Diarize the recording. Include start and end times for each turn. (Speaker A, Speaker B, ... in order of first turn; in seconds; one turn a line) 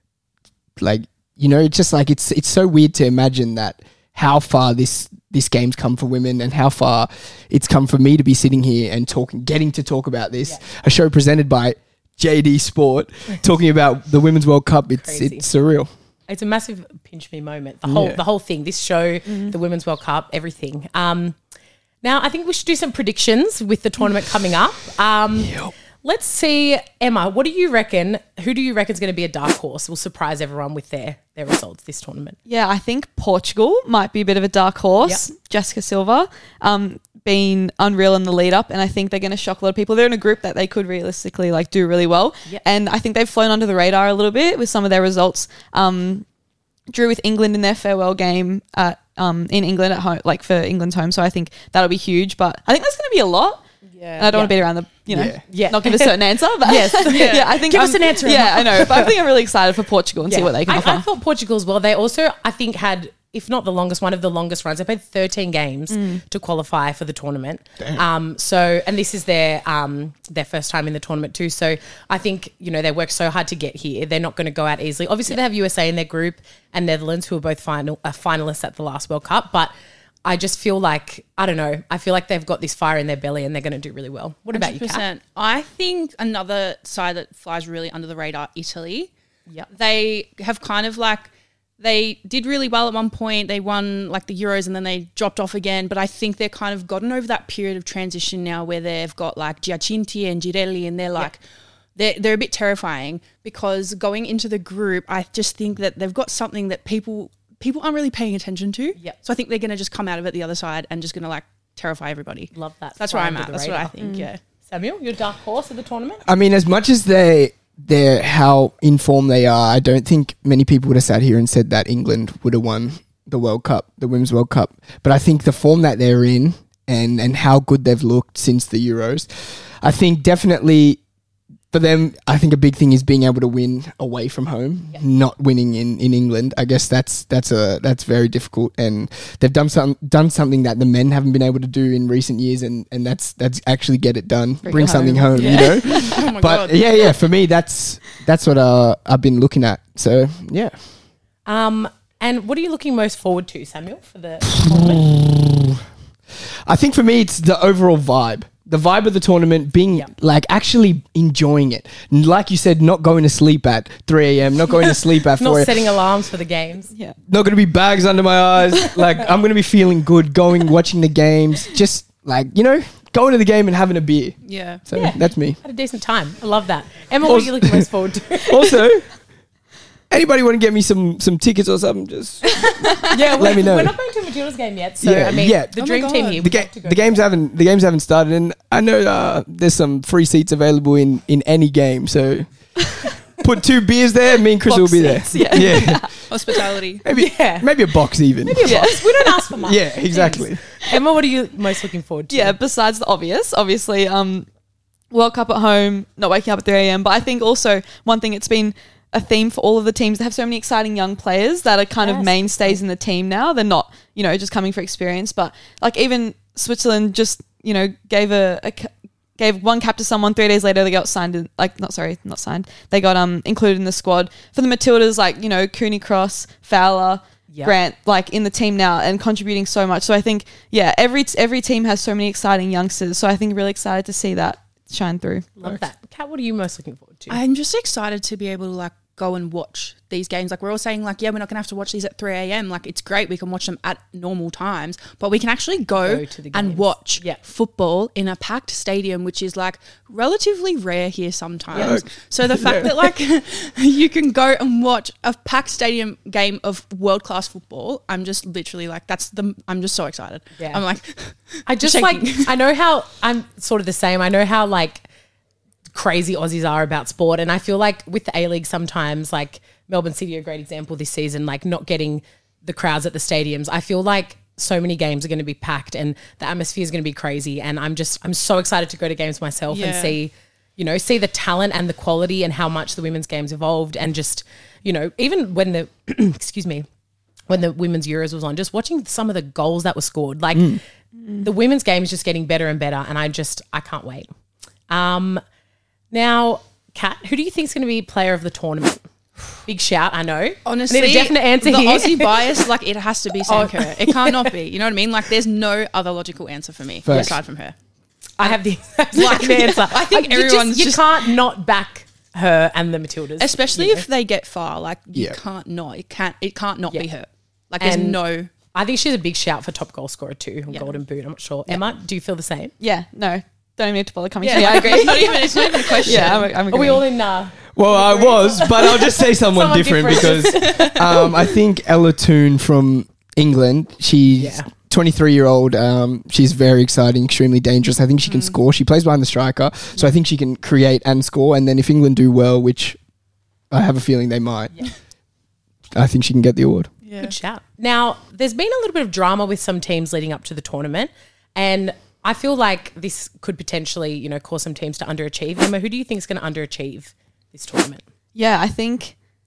Speaker A: 0.8-15.9
Speaker B: 15.0-15.5
Speaker B: 16.3-21.4
Speaker A: 17.9-18.2
Speaker B: 22.0-32.4
Speaker A: 25.4-25.7
Speaker C: 32.5-46.3
Speaker C: 46.9-61.1
Speaker D: 53.9-54.3
Speaker B: 54.3-54.6
Speaker A: 55.1-55.4
Speaker B: 55.5-59.1
Speaker D: 57.1-57.5
Speaker B: 60.3-79.7
Speaker C: 65.9-66.2
Speaker B: 80.2-85.0
Speaker D: 84.5-89.1
Speaker D: 89.7-101.4
Speaker D: 102.0-114.4
Speaker B: 112.5-113.9
Speaker C: 114.0-114.3
Speaker B: 114.6-116.2
Speaker A: 116.2-131.0
Speaker A: 131.7-150.9
Speaker C: 144.6-146.0
Speaker D: 145.3-147.1
Speaker B: 151.5-155.1
Speaker A: 154.6-155.7
Speaker A: 156.7-166.0
Speaker B: 165.3-166.9
Speaker A: 167.3-175.6
Speaker D: 174.4-174.8
Speaker B: 174.9-178.8
Speaker A: 177.2-179.5
Speaker A: 180.1-184.0
Speaker B: 183.1-187.3
Speaker A: 185.0-196.3
Speaker D: 185.8-186.5
Speaker C: 194.7-196.7
Speaker D: 196.3-197.0
Speaker A: 197.0-198.9
Speaker B: 197.1-202.6
Speaker C: 198.6-199.4
Speaker A: 199.6-200.6
Speaker C: 202.3-204.5
Speaker C: 205.1-235.5
Speaker B: 212.0-212.8
Speaker B: 227.5-227.7
Speaker B: 235.6-237.4
Speaker D: 237.3-262.5
Speaker B: 246.0-247.4
Speaker A: 251.7-253.0
Speaker B: 260.6-260.8
Speaker B: 261.6-265.1
Speaker B: 265.9-286.9
Speaker D: 279.7-280.2
Speaker B: 287.5-290.8
Speaker A: 290.5-290.8
Speaker B: 291.4-294.3
Speaker B: 294.9-295.4
Speaker B: 296.1-299.1
Speaker B: 299.6-302.6
Speaker D: 300.6-307.8
Speaker B: 303.5-304.5
Speaker A: 307.0-307.4
Speaker B: 307.1-307.4
Speaker B: 308.4-314.1
Speaker D: 309.1-311.4
Speaker D: 313.4-318.5
Speaker B: 317.8-322.7
Speaker C: 322.8-327.1
Speaker D: 324.4-326.5
Speaker B: 324.4-325.4
Speaker B: 326.1-331.4
Speaker A: 327.8-343.0
Speaker D: 330.0-331.2
Speaker B: 334.4-334.7
Speaker D: 338.2-338.6
Speaker A: 343.7-345.2
Speaker A: 345.9-346.9
Speaker D: 347.0-347.4
Speaker B: 347.2-358.0
Speaker C: 358.4-359.2